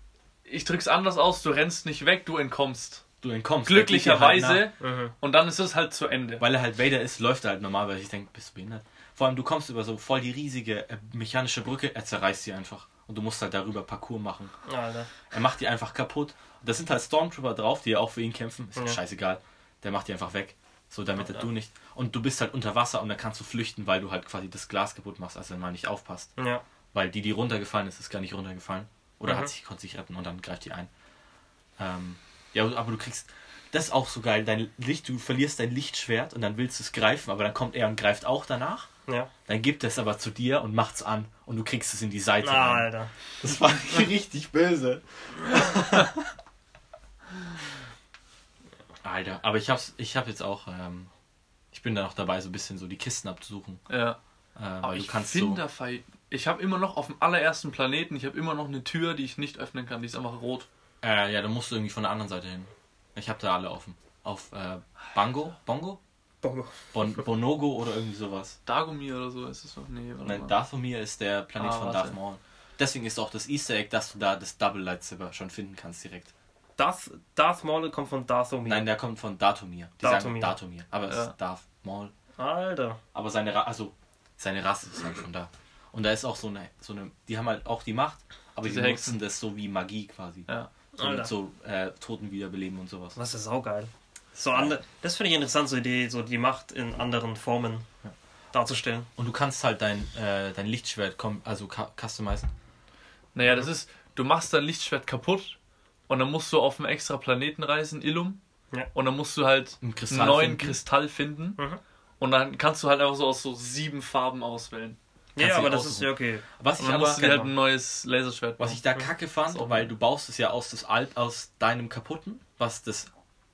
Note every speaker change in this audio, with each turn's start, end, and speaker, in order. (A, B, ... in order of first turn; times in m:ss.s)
0:00.4-0:03.0 A
0:03.2-0:04.6 B
0:03.6-0:06.4 A
0:04.8-0:05.1 C
0:06.4-0:14.6 B
0:14.6-0:15.1 C
0:15.2-0:26.4 B
0:21.2-0:21.4 C
0:26.4-0:26.6 C
0:26.9-0:30.9 B
0:29.2-0:29.5 C
0:31.8-0:38.9 B
0:39.4-0:46.1 B
0:42.4-0:43.1 C
0:49.0-0:51.1 B
0:51.7-0:53.8 B
0:53.9-0:54.2 A
0:54.6-0:55.6 B
0:54.8-1:00.7 A
1:01.0-1:06.0 B
1:06.4-1:06.8 C
1:06.9-1:08.6 B
1:08.6-1:10.5 A
1:10.2-1:16.3 B
1:11.6-1:12.2 A
1:16.8-1:18.9 C
1:18.6-1:22.1 B
1:20.0-1:20.5 C
1:21.1-1:21.3 A
1:22.4-1:23.0 C
1:23.1-1:33.2 B
1:28.6-1:29.2 A
1:31.0-1:31.3 C
1:33.1-1:37.9 C
1:34.4-1:34.8 B
1:38.5-1:39.1 C
1:39.2-1:42.5 B
1:43.3-1:45.6 A
1:46.1-1:48.4 A
1:48.9-1:51.6 A
1:49.8-1:50.8 B
1:52.2-1:55.0 A
1:55.4-1:56.4 C
1:55.4-1:57.5 B
1:56.8-1:58.8 A
1:58.6-2:03.1 B
1:59.5-1:59.9 A